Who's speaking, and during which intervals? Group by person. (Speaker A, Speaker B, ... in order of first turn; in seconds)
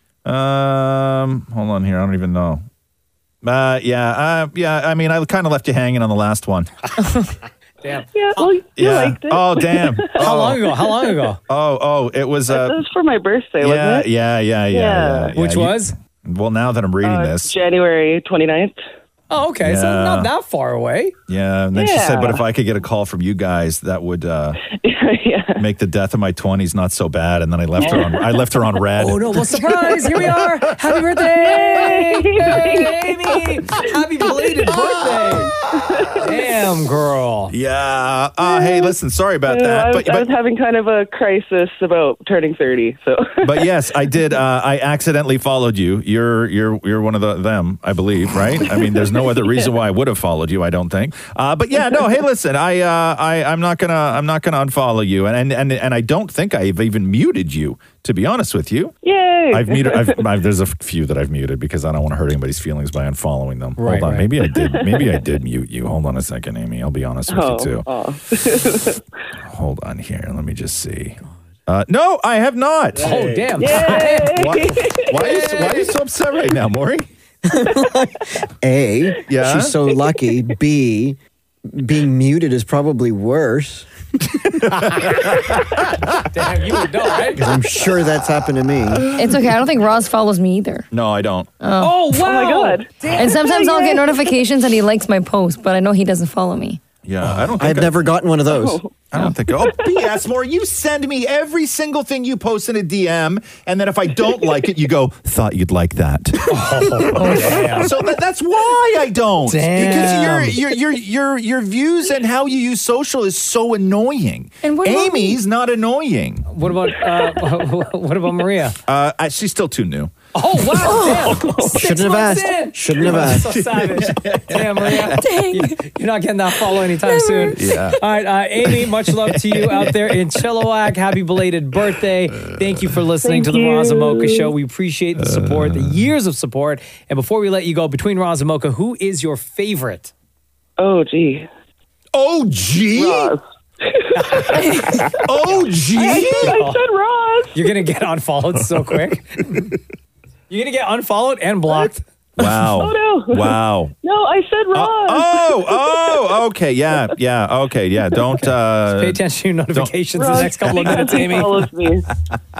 Speaker A: 0.2-2.6, 3.4-6.7, 8.7-10.7, 11.5-12.8, 13.6-17.6, 19.6-20.3, 21.3-24.6, 25.6-30.7, 37.5-40.3, 43.4-58.9, 59.5-67.9, 69.4-77.1, 79.2-79.8, 84.8-85.7, 90.9-91.5, 97.0-98.1, 99.1-116.5, 118.9-120.1, 123.0-125.2, 127.5-128.0, 128.8-129.9, 135.2-136.1, 142.1-143.3, 145.2-146.6, 152.4-153.9, 154.7-159.2, 159.7-161.1
Speaker B: 7.0-7.3, 7.8-8.5, 10.2-11.4, 15.3-15.9, 19.3-21.1, 27.8-28.2, 29.0-35.5, 36.2-37.5, 63.8-64.3, 73.0-74.4, 86.3-87.4, 91.8-93.2, 106.5-107.9, 109.5-110.6, 116.5-118.8, 120.3-140.1, 144.2-145.1, 145.9-146.8, 147.5-149.7, 150.5-152.0, 158.9-161.7
Speaker C: 8.1-10.1, 12.5-14.1, 14.7-15.3, 17.0-18.8, 21.7-22.4, 24.6-25.6, 31.4-33.0, 35.7-36.3, 38.4-38.9, 39.5-43.7, 59.0-60.2, 64.5-65.2, 67.3-69.0, 73.6-75.9, 92.1-94.4, 98.5-99.0, 99.6-99.9, 117.0-117.4, 120.8-121.8, 133.2-134.5, 140.8-141.5, 142.9-145.2, 145.9-147.6, 152.7-156.2, 160.1-162.1
Speaker D: 77.5-83.9, 87.3-89.1, 97.6-98.8, 121.7-123.5
Speaker E: 89.1-90.9, 91.6-92.0, 93.1-96.8, 114.6-115.4, 125.2-125.8, 127.2-127.5